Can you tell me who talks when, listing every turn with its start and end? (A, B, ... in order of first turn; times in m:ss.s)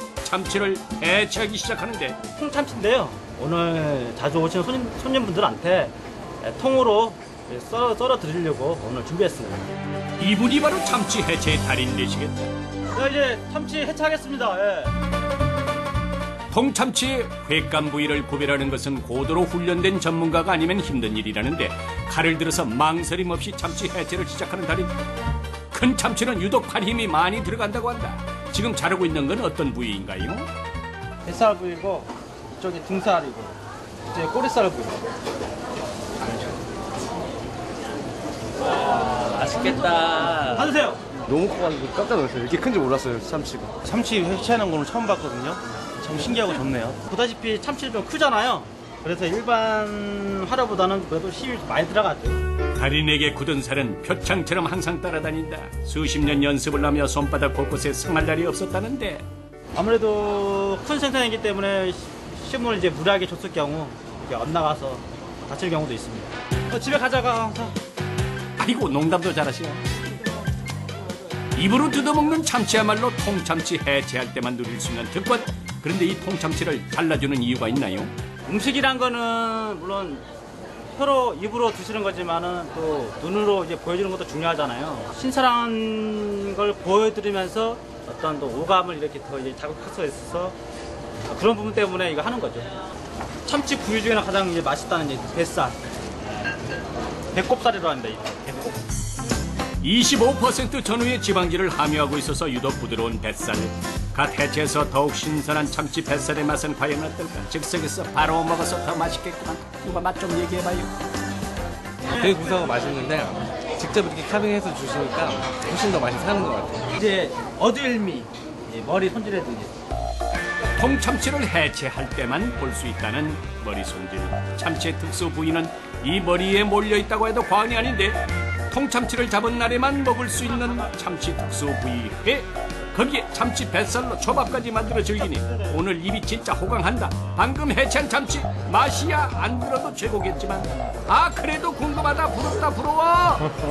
0:00.2-0:02.2 A
0:02.4-0:09.7 B
0:10.2-0:12.5 A
0:12.9-0:14.9 B
0:16.5-0:24.9 A
0:25.7-0:30.5 A
0:31.2-0:33.6 B
0:34.1-0:35.0 B
0:40.4-0:41.0 B
0:43.8-0:52.4 B
0:52.7-0:59.2 A
0:59.8-1:07.7 B
1:08.6-1:09.8 A
1:11.6-1:18.1 A
1:18.5-1:20.2 B
1:21.0-1:30.6 B
1:31.3-1:32.7 B
1:33.4-1:35.8 B
1:37.4-1:38.8 B
1:39.8-1:50.9 A
1:52.1-1:56.8 C
1:56.9-1:59.7 B
2:00.8-2:23.5 A